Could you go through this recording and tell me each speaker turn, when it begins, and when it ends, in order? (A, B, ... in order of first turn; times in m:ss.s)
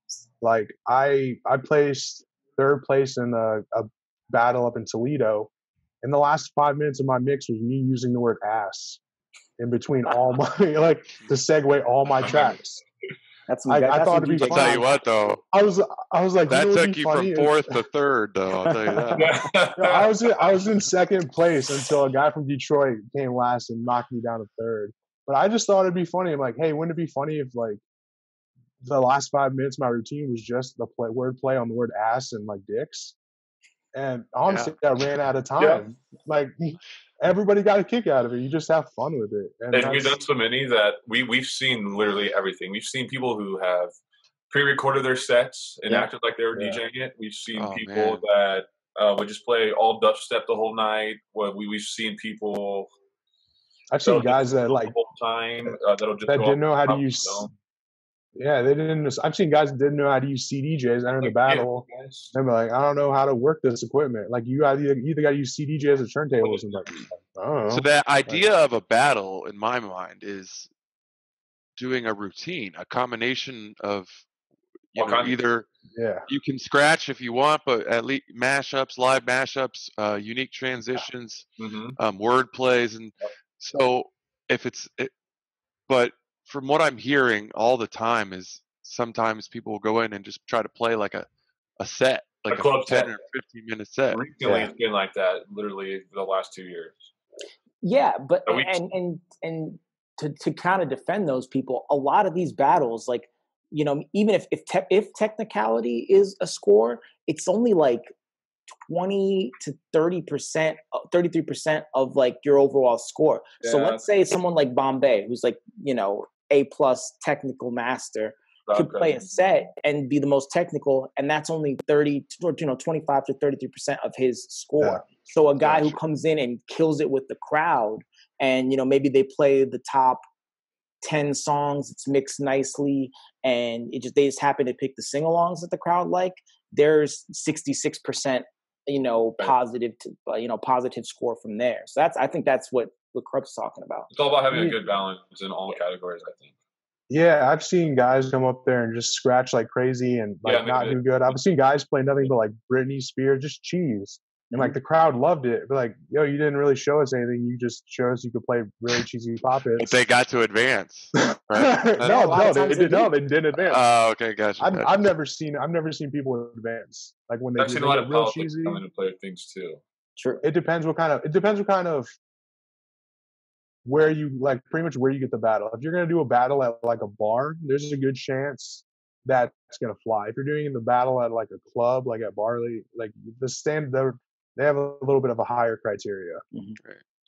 0:00.4-0:05.5 A
0:06.0-0:09.0 A
0:09.6-0:12.8 A
0:12.2-0:12.5 B
0:13.5-0:14.9 C
0:13.7-0:14.8 A
0:14.4-0:15.4 D
0:15.5-0:17.6 A
0:16.5-0:19.3 D
0:19.0-0:27.8 A
0:19.2-0:20.1 B
0:28.8-0:33.2 A
0:33.9-0:40.2 A
0:34.5-0:34.7 D
0:35.6-0:35.8 B
0:39.7-0:43.9 B
0:44.5-0:52.9 B
0:46.5-0:46.8 A
0:47.5-0:48.2 D
0:53.9-0:54.9 A
0:54.0-0:57.5 B
0:56.3-0:57.5 A
0:58.4-1:08.5 A
1:01.2-1:02.3 B
1:06.4-1:07.1 B
1:07.7-1:10.7 D
1:11.8-1:14.2 D
1:14.9-1:15.7 D
1:15.0-1:15.4 B
1:15.9-1:16.2 A
1:16.3-1:25.1 D
1:21.6-1:22.0 B
1:25.9-1:31.3 D
1:31.8-1:34.2 D
1:32.5-1:33.1 B
1:34.1-1:37.1 B
1:34.4-1:34.7 A
1:37.8-1:48.1 C
1:38.4-1:38.8 B
1:48.9-2:10.2 C
1:53.6-1:54.0 B
1:58.7-1:59.3 B
2:05.6-2:05.9 B
2:11.0-2:24.1 C
2:24.1-2:26.5 B
2:24.5-2:24.8 A
2:27.1-2:40.0 A
2:30.4-2:31.4 B
2:34.5-2:34.8 C
2:39.8-2:42.9 D
2:41.6-2:43.8 A
2:42.0-2:43.1 C
2:43.6-2:45.1 D
2:44.6-2:48.8 A
2:47.6-2:49.8 B
2:50.2-2:50.4 C
2:50.4-2:52.1 A
2:53.8-3:06.4 A
3:06.5-3:06.8 C